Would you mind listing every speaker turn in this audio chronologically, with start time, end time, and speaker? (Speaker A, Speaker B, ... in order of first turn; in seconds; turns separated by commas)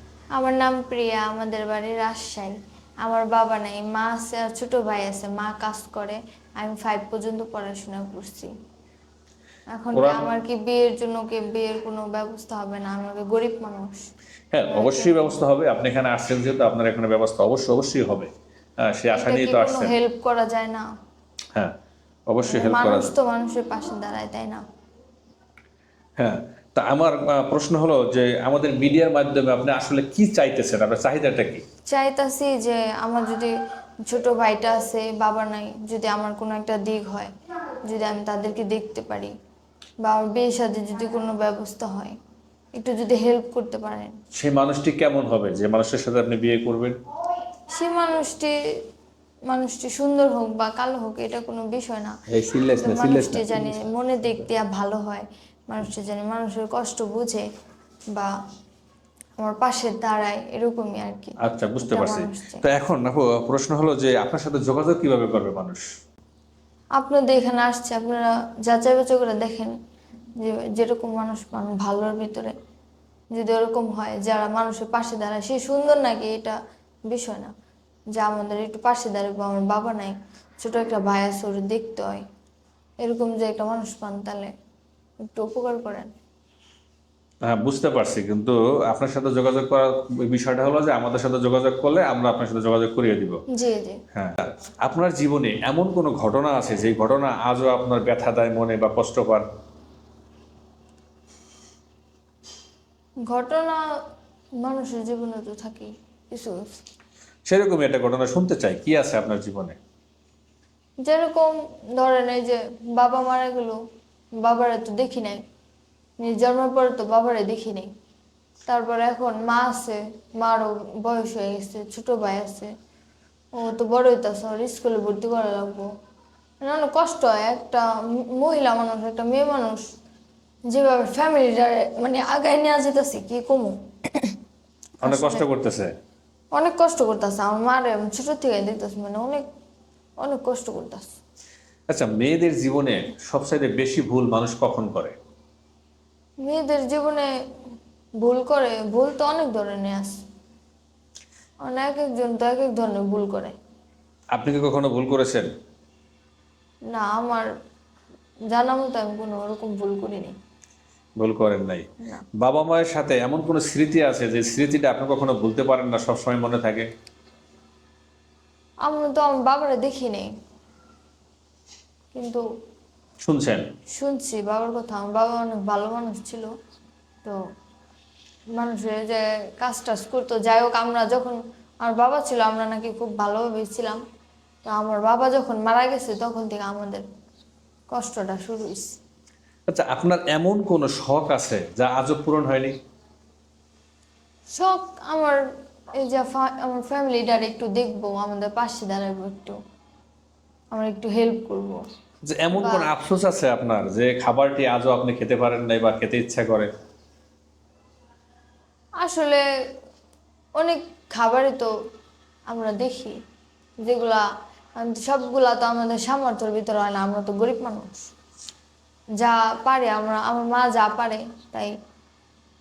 Speaker A: 0.3-8.5, Speaker A: 9.7-14.1, Speaker B: 9.9-10.3, Speaker B: 14.5-18.3, Speaker A: 14.7-15.3, Speaker B: 18.8-19.9, Speaker A: 19.1-20.9, Speaker B: 22.3-23.1, Speaker A: 22.5-24.6, Speaker B: 26.2-31.6, Speaker A: 31.9-33.5, Speaker A: 34.1-37.3, Speaker A: 37.9-39.3, Speaker A: 40.0-42.1, Speaker A: 42.8-44.1, Speaker B: 44.3-47.0, Speaker A: 47.7-48.5, Speaker A: 49.5-52.1, Speaker B: 52.3-53.8, Speaker A: 52.8-57.4, Speaker A: 59.4-62.6, Speaker B: 61.4-65.8, Speaker A: 67.0-69.7, Speaker A: 70.4-72.5, Speaker A: 73.3-76.6, Speaker A: 77.1-77.5, Speaker A: 78.2-82.2, Speaker A: 83.0-84.5, Speaker A: 85.3-86.1, Speaker B: 87.5-93.4, Speaker A: 93.5-94.0, Speaker B: 94.1-99.5, Speaker A: 103.3-103.8, Speaker A: 104.6-106.8, Speaker B: 107.5-109.8, Speaker A: 111.0-113.8, Speaker A: 114.4-115.4, Speaker A: 116.2-117.9, Speaker A: 118.7-122.7, Speaker A: 123.5-125.9, Speaker A: 126.6-129.8, Speaker A: 130.7-134.3, Speaker B: 135.0-135.9, Speaker A: 135.0-135.4, Speaker A: 136.6-139.4, Speaker A: 140.2-141.2, Speaker B: 141.9-145.1, Speaker A: 146.4-147.3, Speaker A: 148.2-150.2, Speaker A: 151.7-153.5, Speaker B: 154.3-155.5, Speaker A: 156.9-157.5, Speaker A: 158.5-160.3, Speaker B: 161.2-161.8, Speaker B: 162.4-166.9, Speaker A: 168.8-170.3, Speaker A: 172.1-172.4, Speaker B: 173.2-173.7, Speaker A: 173.9-176.5, Speaker A: 178.6-184.0, Speaker A: 184.7-187.0, Speaker A: 187.9-189.0, Speaker B: 189.7-192.7, Speaker A: 194.5-195.4, Speaker A: 196.0-199.6, Speaker A: 200.7-201.8, Speaker B: 202.2-206.7, Speaker A: 202.5-202.9, Speaker A: 209.0-209.4, Speaker A: 210.6-211.7, Speaker A: 212.5-213.1, Speaker A: 213.8-214.2, Speaker A: 214.8-218.1, Speaker A: 219.2-221.7